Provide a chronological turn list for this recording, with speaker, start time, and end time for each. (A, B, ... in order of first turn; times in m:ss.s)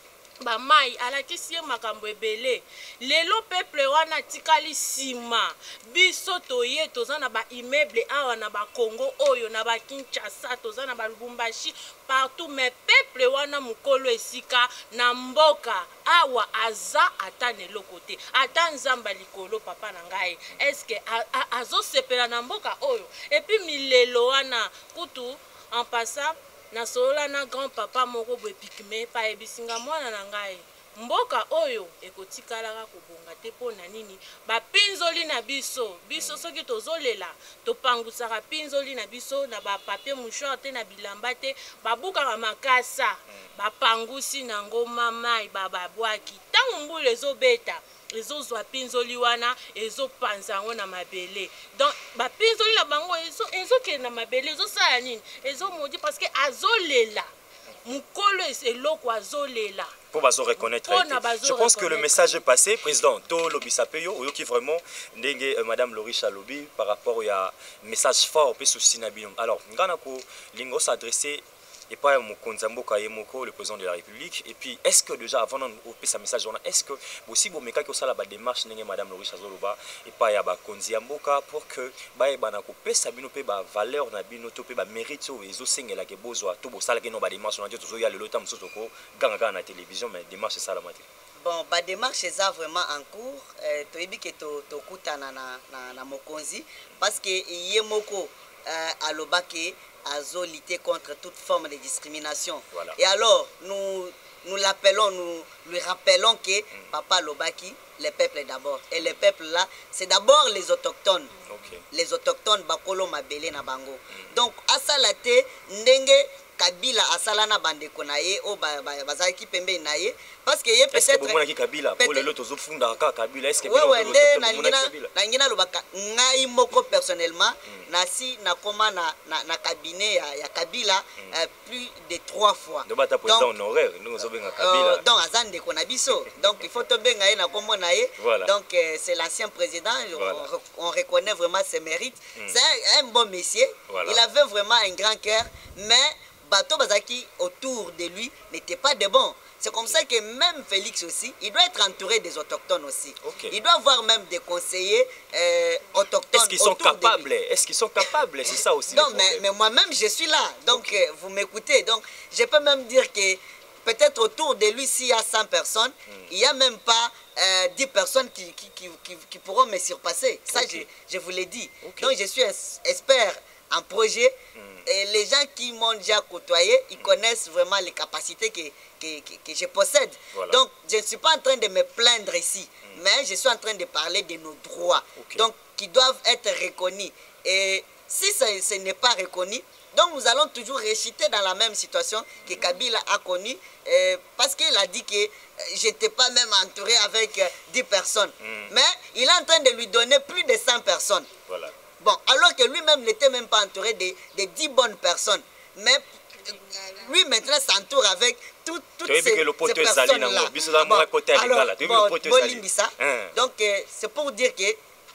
0:00.4-0:57.3 A
0:36.2-0:36.4 B
0:57.8-1:00.0 A
1:00.1-1:31.1 B
1:00.6-1:02.4 A
1:31.4-1:51.3 C
1:42.7-1:43.0 B
1:51.5-1:51.8 B
1:51.9-2:01.4 C
2:00.9-2:05.1 B
2:02.0-2:02.3 C
2:03.6-2:13.5 C
2:12.8-2:15.0 B
2:14.6-2:37.3 C
2:18.2-2:18.5 B
2:20.1-2:20.5 B
2:23.9-2:24.2 B
2:29.7-2:30.0 B
2:33.2-2:33.6 B
2:36.3-2:39.4 B
2:38.9-3:21.3 C
2:40.7-2:41.0 B
2:50.5-2:50.9 B
2:51.8-2:52.1 B
2:54.6-2:54.8 B
3:00.3-3:00.6 B
3:05.2-3:05.5 B
3:12.4-3:12.7 B
3:18.4-3:18.7 B
3:21.5-3:21.7 B
3:22.0-3:34.8 C
3:29.1-3:33.3 B